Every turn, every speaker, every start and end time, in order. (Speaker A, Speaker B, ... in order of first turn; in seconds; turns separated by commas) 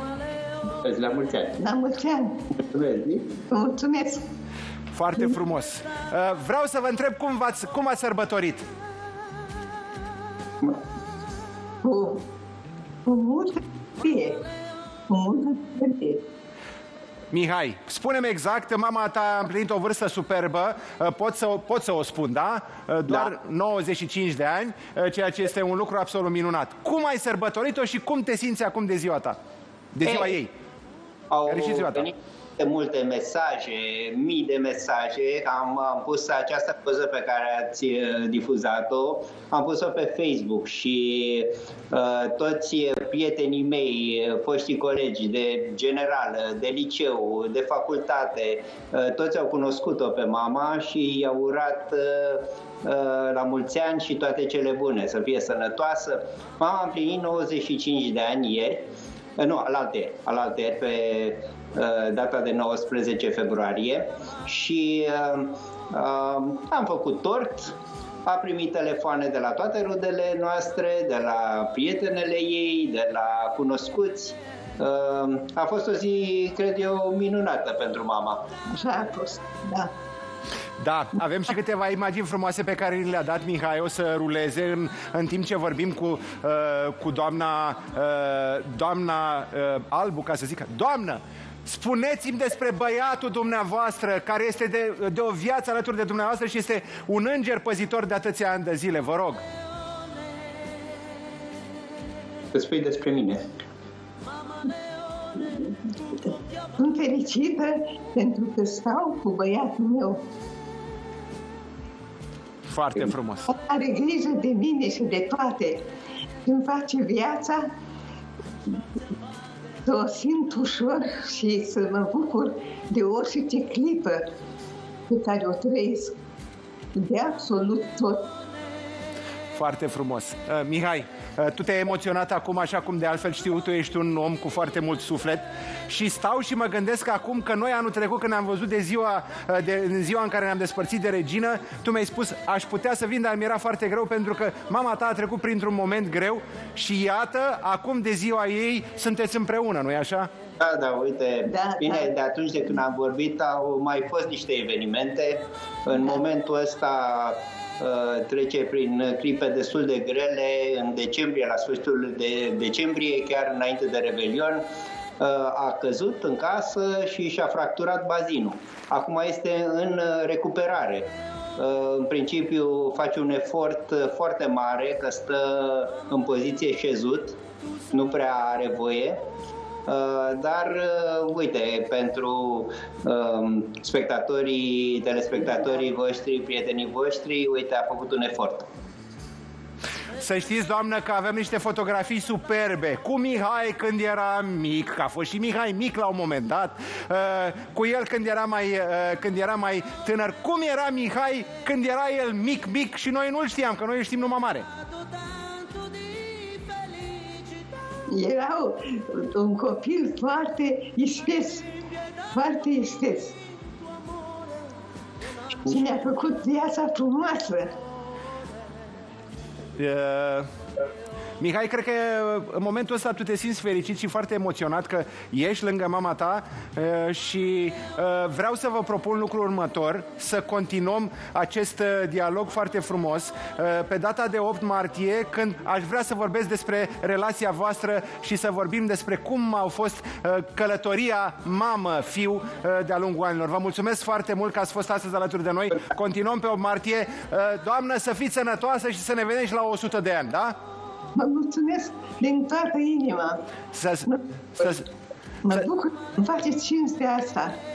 Speaker A: 0.8-1.6, Speaker B: 1.6-2.4, Speaker A: 2.6-3.4, Speaker B: 3.5-4.2, Speaker C: 4.9-8.7, Speaker B: 11.8-12.2, Speaker B: 13.1-14.4, Speaker B: 15.1-16.2, Speaker C: 17.3-29.4, Speaker A: 23.1-23.3, Speaker C: 29.9-30.5, Speaker A: 30.0-30.3, Speaker A: 31.3-78.5, Speaker C: 31.5-32.0, Speaker B: 78.7-79.9, Speaker C: 80.8-99.4, Speaker A: 102.5-103.4, Speaker B: 105.3-110.2, Speaker C: 112.7-113.5, Speaker B: 113.5-115.8, Speaker B: 116.4-117.7, Speaker B: 119.8-124.2, Speaker B: 125.1-126.1, Speaker B: 127.0-128.3, Speaker C: 129.5-150.3, Speaker A: 150.6-164.6, Speaker B: 151.5-152.1, Speaker A: 165.2-177.4, Speaker A: 177.9-179.2, Speaker A: 179.9-188.7, Speaker C: 190.2-204.7, Speaker B: 208.1-211.7, Speaker B: 212.3-213.4, Speaker B: 215.6-217.7, Speaker C: 219.8-220.5, Speaker C: 221.4-250.6, Speaker B: 251.1-253.4, Speaker C: 253.7-254.8, Speaker B: 255.4-257.6